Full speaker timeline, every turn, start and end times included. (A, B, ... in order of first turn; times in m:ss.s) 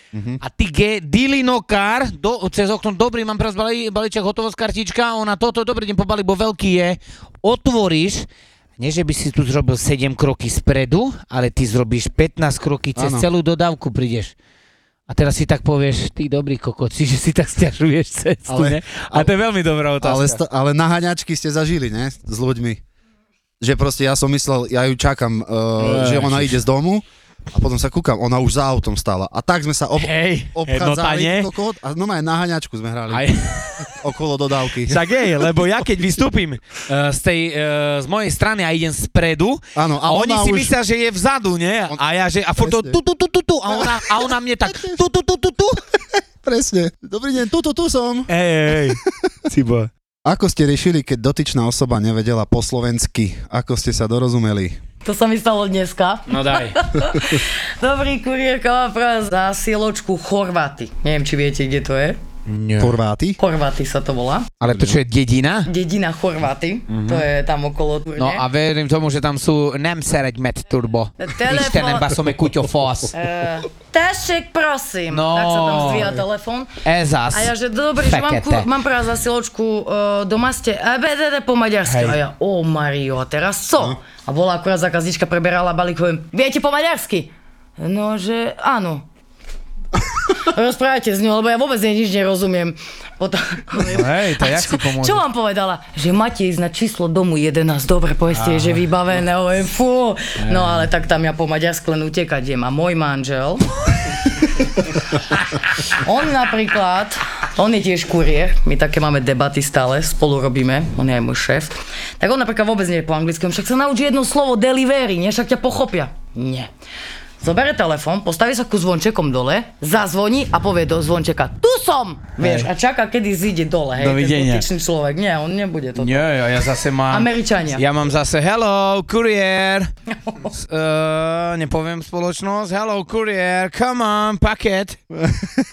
0:00.1-0:00.4 A
0:00.4-0:08.3 B
0:08.8-0:14.4 B
0:13.0-0:13.3 A
0:15.1-0:20.4 B
0:18.5-0:19.3 A
0:20.0-0:22.8 A
0:23.6-0:33.3 A
0:25.8-0:26.6 B
0:30.0-0:31.5 B
0:33.1-0:34.0 B
0:33.9-0:35.0 A
0:34.9-0:45.8 B
0:39.8-0:40.8 A
0:42.6-0:43.0 A
0:43.7-0:44.0 A
0:44.7-0:45.0 A
0:46.0-0:48.3 A
0:48.3-0:49.9 B
0:48.9-0:49.3 A
0:50.2-0:54.8 A
0:55.0-1:02.2 C
0:56.3-0:56.8 B
1:02.5-1:02.9 B
1:02.8-1:03.4 A
1:03.4-1:04.5 C
1:04.6-1:05.7 B
1:04.7-1:05.0 A
1:05.7-1:08.4 C
1:06.9-1:07.2 B
1:08.2-1:13.1 B
1:11.2-1:12.2 C
1:13.1-1:16.7 C
1:15.1-1:16.1 B
1:16.8-1:18.7 B
1:17.3-1:29.0 C
1:21.8-1:22.2 B
1:30.4-1:43.7 C
1:33.9-1:35.2 B
1:38.4-1:38.8 B
1:40.4-1:40.8 B
1:45.9-1:56.7 C
1:57.4-2:06.3 C
2:02.4-2:02.7 B
2:04.0-2:04.7 B
2:06.0-2:09.9 B
2:07.1-2:07.8 C
2:10.5-2:15.0 B
2:15.2-2:15.6 A